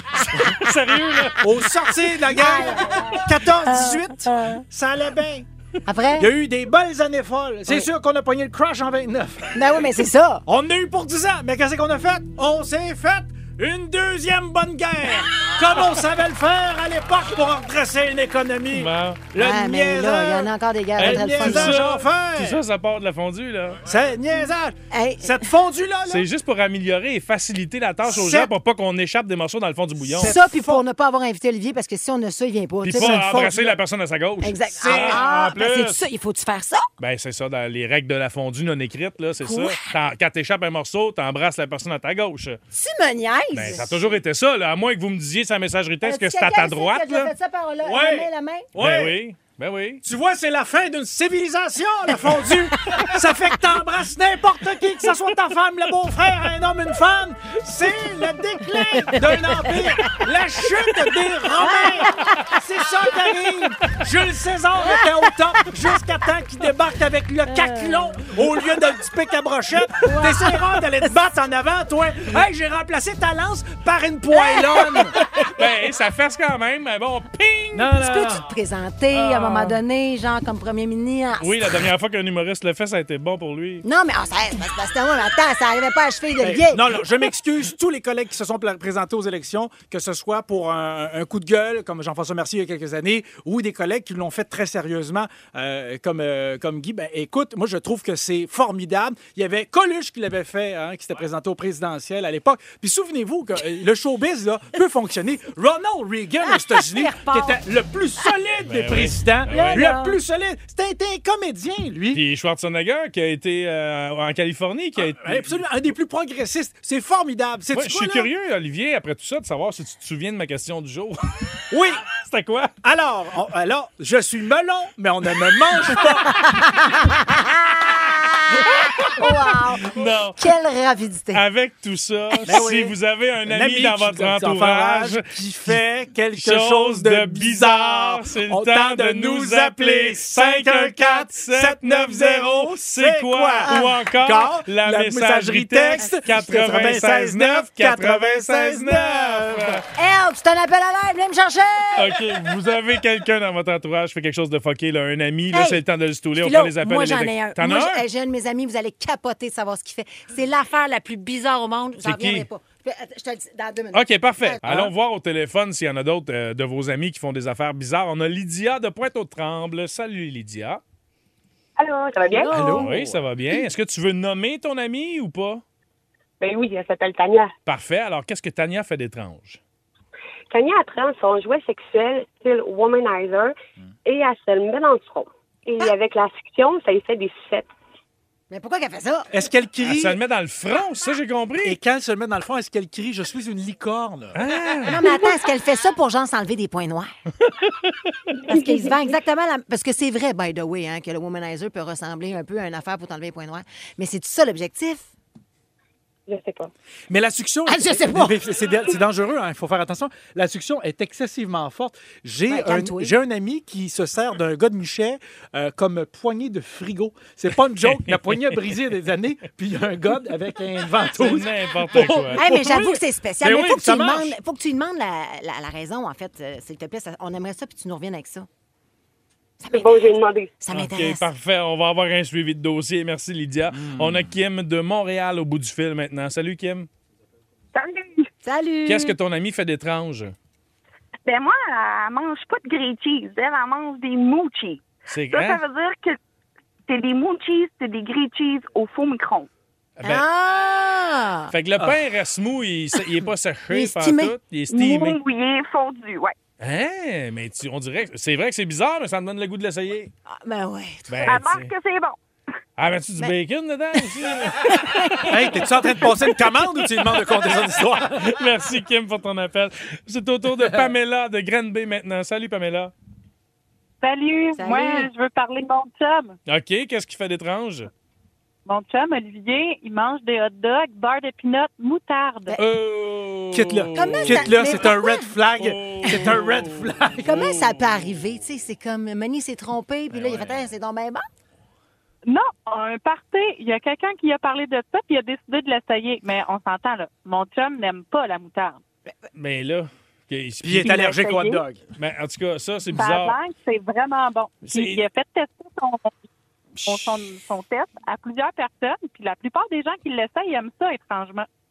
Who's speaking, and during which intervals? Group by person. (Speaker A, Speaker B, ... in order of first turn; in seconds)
Speaker A: 0.1-1.5, 18.7-19.2, 21.0-23.8, 26.1-30.3, 32.9-36.0, 37.0-42.6, 43.5-47.3, 48.8-50.0, 75.5-77.9, 79.1-79.8, 81.4-83.8, 108.6-109.9, 112.1-115.6, 117.7-121.2, 122.2-122.7, 128.9-129.2, 129.9-130.5, 131.3-135.8, 136.4-149.8, 151.9-158.0, 162.0-162.5, 163.9-170.8, 172.7-175.6, 177.7-179.6, 189.8-191.8, 194.3-195.0, 217.8-218.6, 221.1-222.5, 230.7-236.9, 238.8-240.3, 245.1-245.6, 250.0-250.2, 251.5-255.2, 256.6-260.1, 261.1-261.7, 262.8-265.5, 268.1-272.9, 276.5-277.9, 282.6-284.9, 285.6-287.9, 290.1-290.5, 299.3-301.0, 301.9-303.4, 304.6-305.0, 306.8-307.2
Speaker B: 1.4-5.5, 6.2-9.6, 10.5-22.6, 23.8-26.2, 28.1-28.5, 30.1-30.8, 32.8-33.8, 34.8-35.3, 47.8-49.2, 50.0-75.2, 77.7-78.5, 86.4-112.2, 115.0-118.3, 121.7-122.0, 122.8-126.3, 132.4-149.8, 172.5-173.2, 189.3-190.2, 191.6-194.4, 207.1-224.3, 233.7-234.3, 265.3-268.3, 270.6-270.9, 283.5-287.5, 300.6-301.8
Speaker C: 2.3-4.6, 5.8-6.3, 9.5-10.4, 19.4-21.8, 24.9-25.4, 30.2-33.5, 34.4-36.9, 39.4-39.9, 42.7-44.1, 46.0-48.7, 58.9-60.2, 61.6-62.3, 67.5-68.4, 70.0-71.1, 74.3-75.5, 77.9-81.7, 83.8-87.0, 106.5-107.6, 109.5-110.2, 126.3-131.4, 146.0-146.9, 149.9-152.2, 155.5-155.8, 156.3-164.9, 172.2-172.9, 188.5-189.3, 194.8-197.1, 198.4-205.1, 207.7-208.4, 212.5-213.2, 222.3-228.5, 229.6-231.2, 238.4-239.1, 250.0-251.5, 253.7-254.3, 260.3-261.4, 264.0-265.3, 274.6-275.1, 283.9-285.4, 287.2-291.2
Speaker D: 171.8-172.5, 176.4-177.5, 180.5-187.7, 198.5-198.9, 206.3-206.7, 229.7-230.5
Speaker E: 237.7-238.2, 241.2-246.2, 246.9-249.5, 254.7-256.4, 261.2-262.2
Speaker F: 274.0-276.3, 278.6-282.6, 292.2-298.8, 300.8-301.6, 302.9-306.1, 306.8-311.5